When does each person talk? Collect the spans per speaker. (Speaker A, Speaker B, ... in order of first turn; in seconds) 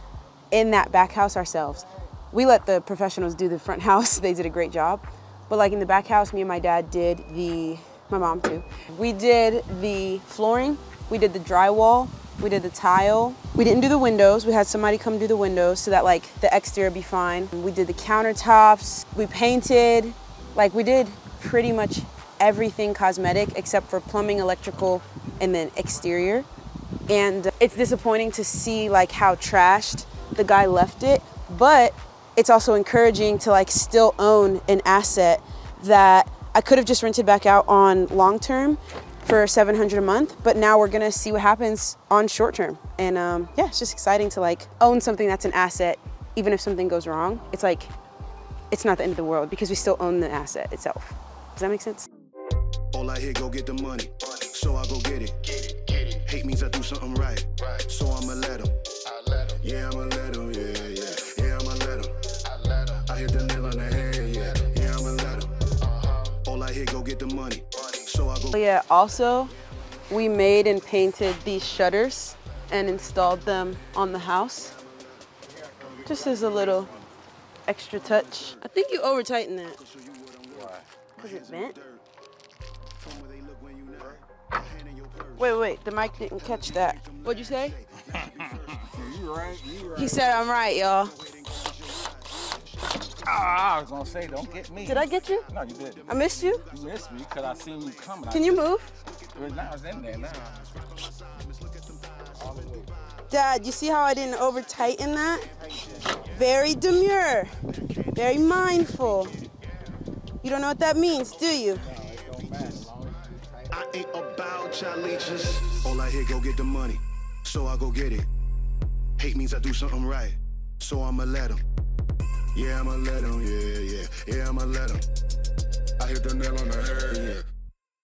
Speaker A: 0.5-26.5, 27.1-47.9, 48.7-52.1, 68.5-69.5, 70.1-74.7, 76.0-76.9, 77.7-79.8, 81.2-81.8, 85.4-87.8, 89.9-91.2, 94.8-95.4, 96.1-96.6, 98.3-98.9, 103.3-107.6, 108.1-109.4, 110.4-111.9
Speaker B: 52.9-68.5, 80.0-80.5, 81.2-82.0, 83.0-85.4, 86.9-88.8, 91.5-92.1, 101.3-102.0, 113.7-118.3, 119.2-121.6, 122.5-125.0, 126.0-127.4
Speaker C: 80.5-80.8, 88.1-90.3, 93.2-96.0, 96.7-98.6, 99.3-100.7, 102.3-102.9, 105.7-106.2, 111.8-113.8